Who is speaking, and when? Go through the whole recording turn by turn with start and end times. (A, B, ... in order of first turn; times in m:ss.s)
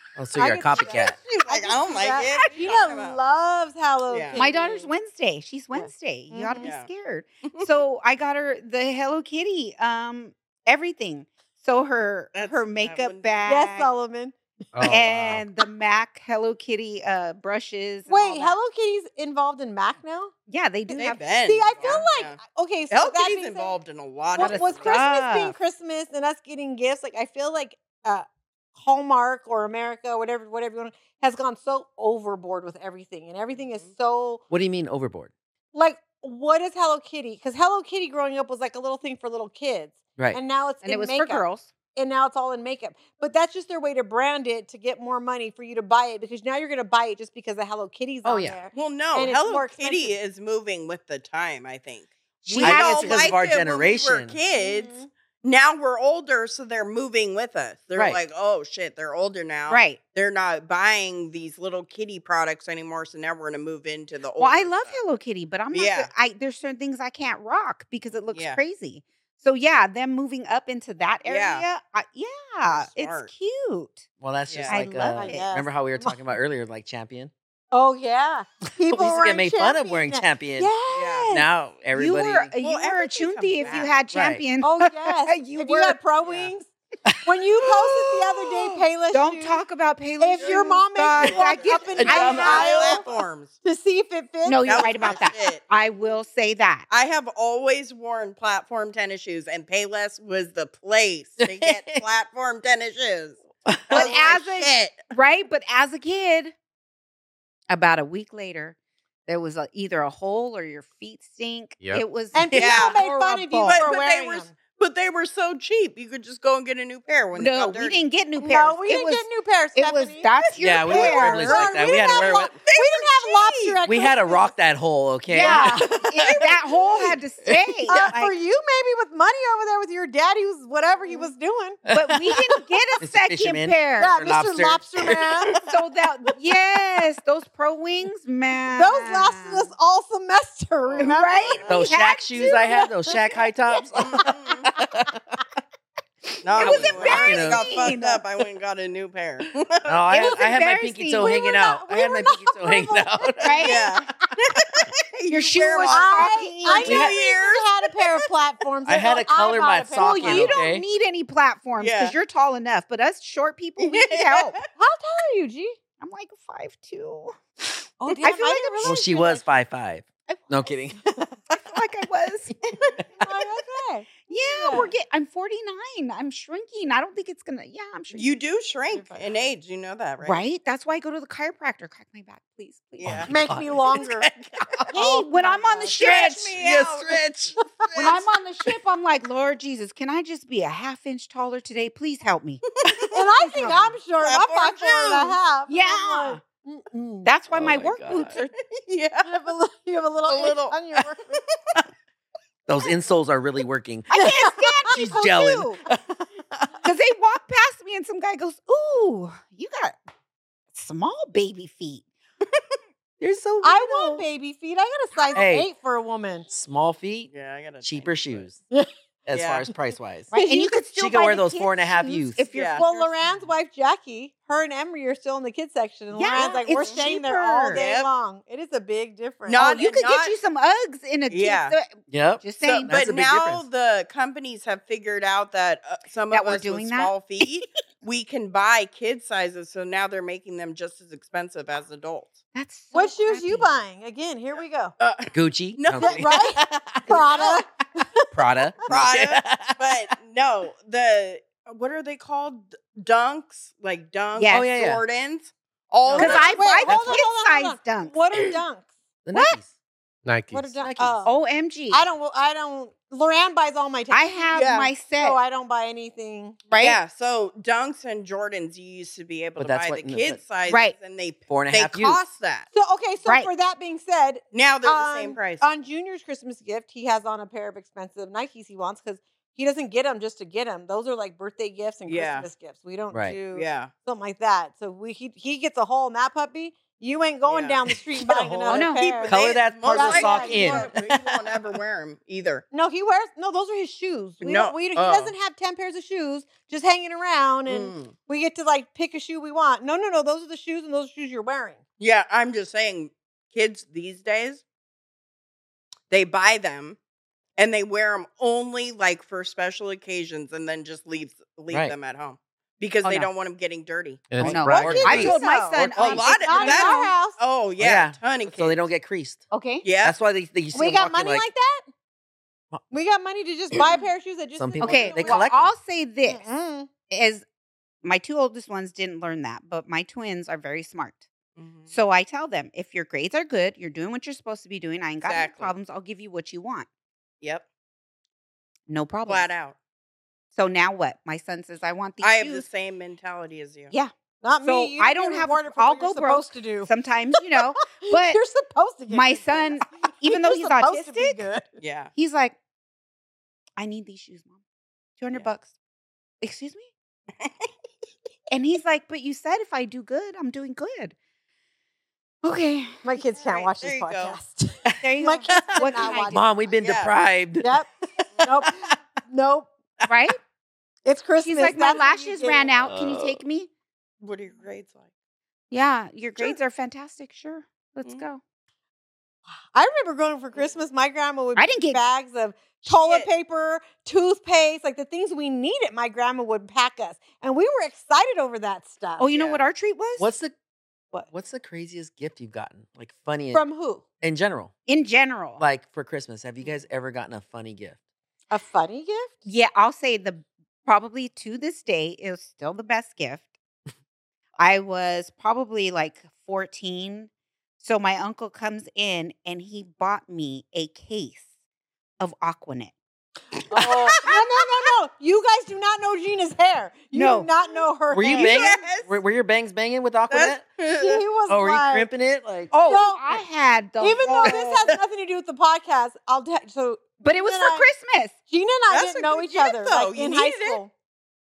0:00.2-0:01.2 A
0:00.3-0:04.9 B
0:01.4-0:03.2 C
0:04.1-0:04.4 C
0:04.4-0:13.9 D
0:05.7-0:06.7 B
0:06.6-0:06.9 C
0:12.3-0:13.4 C
0:13.4-0:14.8 B
0:14.7-0:15.4 E
0:14.8-0:18.6 D
0:18.1-0:20.3 B
0:20.5-0:21.2 D
0:20.9-0:22.4 C
0:21.4-0:23.8 B
0:22.9-0:25.0 C
0:24.3-0:34.4 B
0:24.4-0:25.6 D
0:33.6-0:33.9 C
0:34.5-0:35.3 A
0:35.7-0:50.2 B
0:40.8-0:41.7 D
0:48.2-0:48.6 A
0:48.7-1:05.0 C
0:52.4-0:53.4 D
0:52.6-0:54.4 A
0:54.5-0:55.1 B
0:57.9-0:58.2 A
0:59.7-1:00.0 D
1:04.4-1:14.1 D
1:05.7-1:06.1 C
1:08.3-1:08.6 C
1:11.2-1:11.7 C
1:12.7-1:13.3 C
1:14.2-1:17.3 A
1:14.5-1:14.8 C
1:14.7-1:15.5 D
1:15.1-1:16.2 B
1:17.7-1:21.2 B
1:18.9-1:20.7 A
1:20.9-1:21.3 C
1:21.2-1:26.0 D
1:21.3-1:22.5 A
1:22.6-1:24.0 C
1:24.1-1:24.4 A
1:24.6-1:26.7 B
1:26.2-1:26.5 C
1:27.2-1:29.6 B
1:29.1-1:33.0 D
1:30.2-1:33.1 B
1:31.1-1:33.5 C
1:32.0-1:32.9 A
1:33.6-1:35.2 B
1:34.4-1:36.9 D
1:34.6-1:35.6 C
1:36.9-1:45.1 C
1:41.4-1:42.0 A
1:43.6-1:44.2 A
1:43.9-1:46.5 D
1:47.7-1:48.7 D
1:49.2-1:53.9 D
1:52.3-1:54.5 B
1:52.5-1:53.0 C
1:53.6-1:58.0 C
1:57.3-2:02.0 D
1:58.4-2:04.5 B
2:00.6-2:02.5 A
2:02.1-2:03.8 C
2:03.8-2:06.4 A
2:05.3-2:08.4 D
2:05.3-2:05.9 B
2:07.4-2:08.0 A
2:07.9-2:11.8 B
2:11.8-2:12.4 A
2:11.9-2:14.2 D
2:13.0-2:15.6 A
2:14.0-2:15.6 B
2:15.6-2:19.7 D
2:18.7-2:21.6 B
2:20.8-2:21.8 C
2:21.0-2:22.9 D
2:21.7-2:25.1 A
2:22.4-2:22.8 B
2:24.0-2:24.7 C
2:26.4-2:30.0 C
2:26.5-2:27.7 A
2:26.6-2:28.2 D
2:29.8-2:33.8 A
2:30.1-2:31.7 D
2:31.2-2:33.8 B
2:33.4-2:33.9 D
2:33.6-2:38.1 C
2:35.3-2:37.1 D
2:35.8-2:40.6 B
2:36.8-2:37.1 A
2:38.8-2:40.8 A
2:40.0-2:44.6 D
2:41.8-2:42.1 C
2:43.8-2:44.6 C
2:44.7-2:45.8 B
2:46.0-2:47.4 D
2:48.0-2:49.4 B
2:48.1-2:49.1 D
2:48.8-2:51.0 A
2:50.3-2:50.8 D
2:51.5-2:52.6 D
2:53.2-2:54.9 B
2:54.2-2:58.3 D
2:58.1-3:00.4 C
2:58.9-2:59.3 B
3:00.2-3:03.4 D
3:03.0-3:03.3 C
3:03.0-3:04.9 A
3:03.3-3:04.3 B
3:04.9-3:06.6 D
3:04.9-3:06.0 B
3:05.9-3:08.2 C
3:06.5-3:07.5 A
3:08.0-3:13.9 D
3:12.8-3:13.1 C
3:13.1-3:17.3 B
3:14.2-3:15.4 C
3:15.7-3:16.4 D
3:17.2-3:18.5 D
3:17.5-3:18.4 A
3:18.6-3:19.3 C
3:19.2-3:21.4 B
3:20.3-3:21.0 C
3:22.7-3:26.7 A
3:24.1-3:25.8 D
3:24.2-3:25.6 B
3:26.8-3:29.9 D
3:30.7-3:32.0 D
3:33.2-3:34.2 A
3:33.6-3:36.5 B
3:35.3-3:35.7 A
3:36.5-3:38.6 A
3:37.3-3:38.5 C
3:39.2-3:40.3 A
3:39.3-3:39.7 C
3:40.3-3:43.1 D
3:40.3-3:40.8 B
3:40.9-3:42.4 A
3:42.5-3:42.9 C
3:42.8-3:49.7 B
3:46.1-3:47.8 D
3:46.7-3:47.0 C
3:47.7-3:48.1 C
3:49.5-3:50.3 C
3:49.6-3:53.0 D
3:51.3-3:51.8 C
3:52.1-3:53.6 A
3:52.6-4:02.4 C
3:56.3-3:57.5 D
4:02.5-4:03.8 D
4:02.9-4:04.9 B
4:05.0-4:06.5 C
4:05.3-4:07.5 A
4:06.0-4:08.2 B
4:07.1-4:07.6 C
4:08.3-4:09.9 A
4:08.9-4:16.6 C
4:14.4-4:14.7 D
4:14.5-4:15.0 A
4:16.0-4:17.2 A
4:16.1-4:18.1 D
4:16.2-4:18.9 B
4:19.2-4:19.7 A
4:19.3-4:19.6 D
4:20.2-4:20.8 E
4:20.5-4:21.4 B
4:20.9-4:22.0 D
4:21.9-4:26.6 B
4:24.1-4:25.4 D
4:24.5-4:24.9 C
4:26.7-4:27.0 D
4:26.7-4:32.7 C
4:29.6-4:30.4 A
4:30.6-4:30.9 D
4:31.5-4:32.2 A
4:32.7-4:50.9 B
4:33.2-4:33.5 D
4:34.5-4:35.6 C
4:42.1-4:42.5 C
4:43.1-4:43.4 A
4:43.5-4:43.9 C
4:47.4-4:47.8 C
4:48.1-4:51.6 A
4:48.7-4:49.0 D
4:49.0-4:52.6 C
4:52.7-5:01.8 B
4:54.4-4:55.3 C
4:57.7-4:58.1 C
5:02.0-5:04.6 C
5:06.1-5:07.0 C
5:07.6-5:14.9 C
5:13.0-5:13.3 D
5:14.3-5:15.4 E
5:14.4-5:16.2 A
5:14.4-5:17.1 D
5:14.8-5:17.4 B
5:15.9-5:18.8 C
5:17.8-5:19.5 A
5:19.5-5:19.8 D
5:19.8-5:20.2 C
5:20.0-5:21.5 A
5:20.7-5:21.9 B
5:22.9-5:25.5 B
5:24.6-5:25.7 A
5:24.8-5:26.5 D
5:26.2-5:26.9 B
5:27.1-5:27.4 D
5:28.0-5:31.2 D
5:31.6-5:31.9 C
5:31.9-5:36.9 D
5:35.2-5:35.7 C
5:38.9-5:39.5 D
5:39.2-5:39.8 C
5:40.5-5:42.6 D
5:42.2-5:43.9 C
5:44.4-5:46.9 B
5:44.6-5:48.4 D
5:48.0-5:51.7 B
5:49.1-5:51.4 D
5:51.8-5:52.1 C
5:52.1-5:52.5 D
5:53.8-5:54.5 D
5:55.2-5:55.7 D
5:56.4-5:56.9 D
5:57.4-5:57.7 C
5:58.5-6:01.1 D
6:02.4-6:03.0 D
6:03.0-6:06.4 B
6:03.3-6:04.4 C
6:05.0-6:06.5 D
6:05.5-6:07.8 A
6:06.8-6:07.1 C
6:07.6-6:07.9 B
6:08.4-6:09.7 B
6:10.0-6:10.4 D
6:11.0-6:12.8 B
6:11.4-6:13.7 D
6:12.8-6:13.4 A
6:14.2-6:15.1 C
6:15.7-6:18.4 D
6:19.7-6:29.3 B
6:21.6-6:22.1 D
6:22.9-6:23.3 C
6:29.2-6:30.3 D
6:29.3-6:29.6 C
6:30.2-6:30.5 A
6:31.3-6:33.6 A
6:33.5-6:34.0 B
6:34.2-6:34.7 A
6:34.9-6:35.6 D
6:35.6-6:38.0 A
6:38.5-6:39.3 B
6:39.4-6:43.5 D
6:44.6-6:51.4 D
6:52.2-6:52.9 D
6:53.7-6:58.8 B
6:54.3-6:54.6 D
6:57.1-6:57.5 D
6:58.1-7:00.6 A
6:58.2-6:59.2 C
7:00.3-7:01.2 C
7:00.8-7:02.1 B
7:01.5-7:02.7 A
7:02.7-7:04.9 D
7:02.8-7:03.4 B
7:04.0-7:07.9 B
7:04.4-7:05.0 A
7:07.2-7:08.3 D
7:08.5-7:10.9 B
7:08.9-7:10.8 C